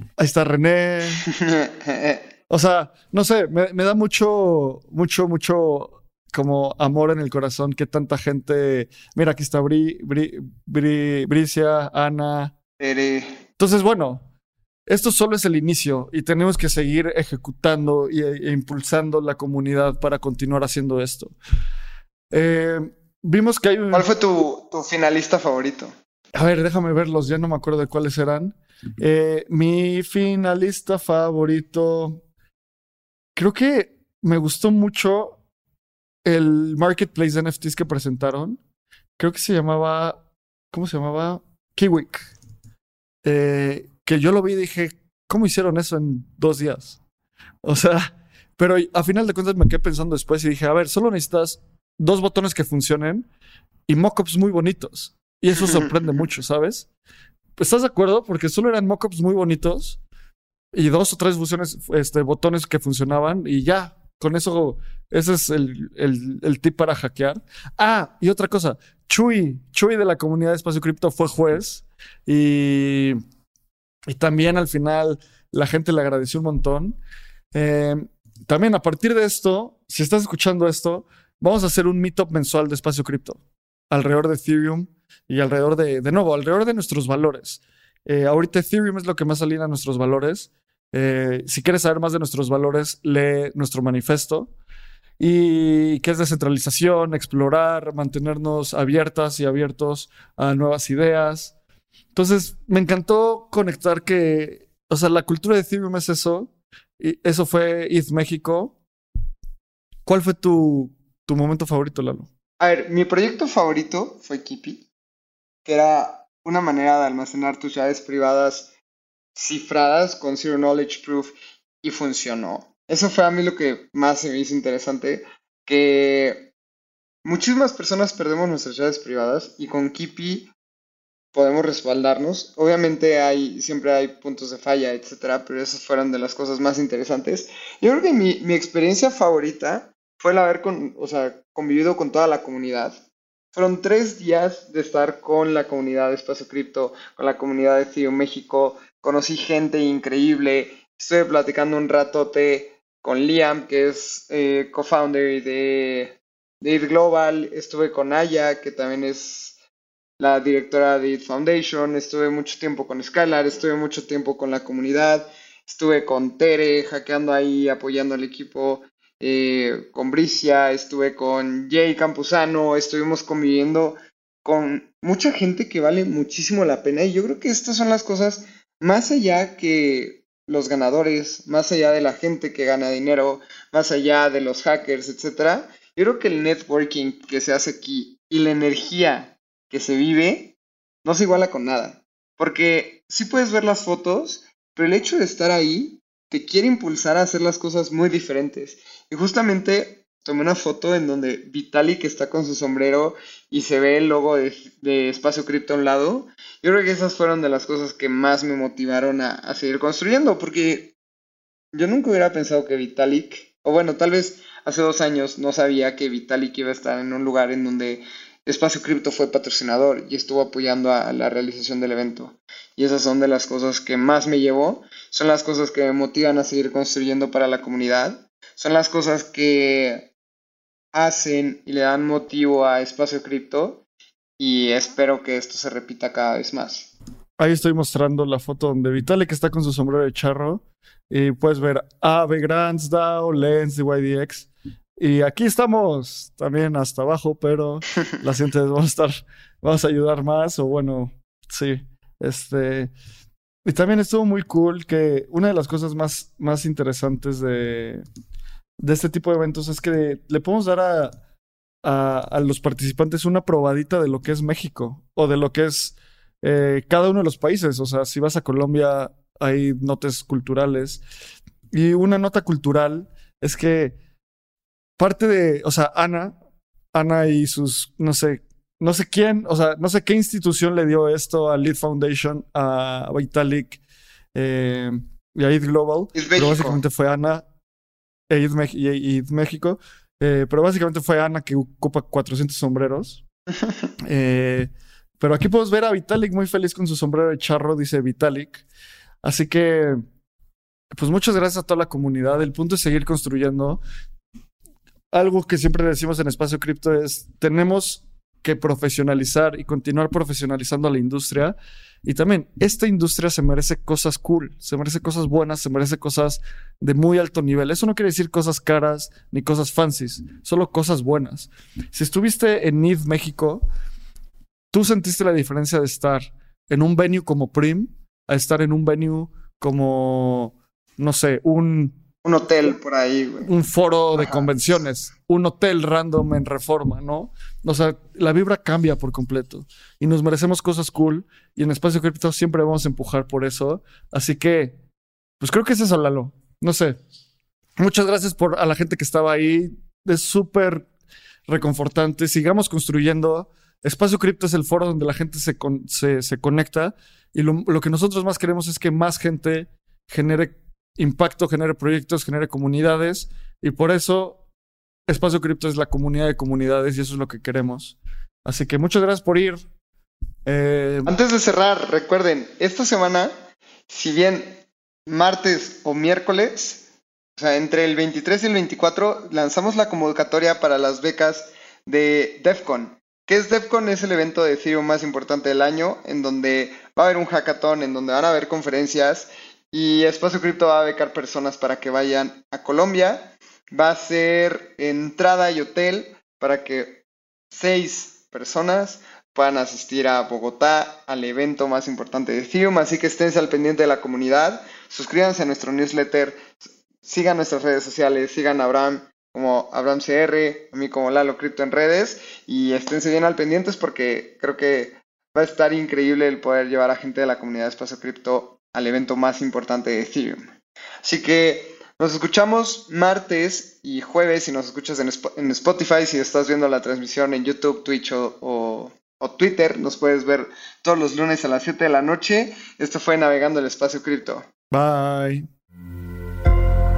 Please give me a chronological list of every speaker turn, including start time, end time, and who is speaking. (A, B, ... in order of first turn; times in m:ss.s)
0:00.2-0:01.2 A
0:01.2-0:02.3 B
0:02.5-0:12.5 A
0:12.8-0:13.4 B
0:13.6-0:14.2 A
0:14.9-0:21.3 A
0:22.3-0:24.1 A
0:23.9-0:25.9 B
0:26.3-0:32.2 A
0:33.4-0:35.4 A
0:36.2-0:38.6 A
0:39.2-0:42.3 A
0:43.2-0:47.0 A
0:47.6-0:53.3 A
0:53.9-0:56.9 A
0:55.6-0:56.2 B
0:57.6-1:00.0 A
1:00.7-1:13.2 A
1:14.0-1:17.0 A
1:17.5-1:34.5 A
1:35.2-1:41.5 A
1:42.1-1:48.8 A
1:50.0-1:52.3 A
1:52.6-1:54.8 B
1:55.6-1:58.7 B
1:59.3-2:06.5 B
2:07.2-2:10.5 B
2:11.3-2:23.0 B
2:23.5-2:39.6 B
2:40.2-3:10.5 B
3:11.0-3:30.9 B
3:31.7-3:50.1 B
3:50.9-3:53.8 B
3:54.4-3:56.9 B
3:57.4-4:12.9 A
4:13.6-4:18.0 A
4:18.8-4:21.1 A
4:21.8-4:31.0 A
4:31.7-4:34.0 A
4:35.0-4:36.4 A
4:36.9-4:43.8 A
4:44.3-4:47.4 A
4:46.1-4:46.8 B
4:48.3-4:53.2 A
4:54.0-4:58.6 A
4:59.2-5:00.0 A
5:00.9-5:03.8 A
5:05.1-5:23.6 A
5:24.7-5:32.0 A
5:32.2-5:33.5 B
5:33.4-5:44.8 A
5:34.2-5:34.5 B
5:45.4-5:47.0 A
5:47.8-5:50.9 A
5:51.5-6:04.4 A
6:05.1-6:09.6 A
6:10.4-6:11.1 A
6:11.0-6:13.3 B
6:13.9-6:16.8 B
6:17.4-7:00.5 B
7:01.0-7:14.4 B
7:14.7-7:15.5 A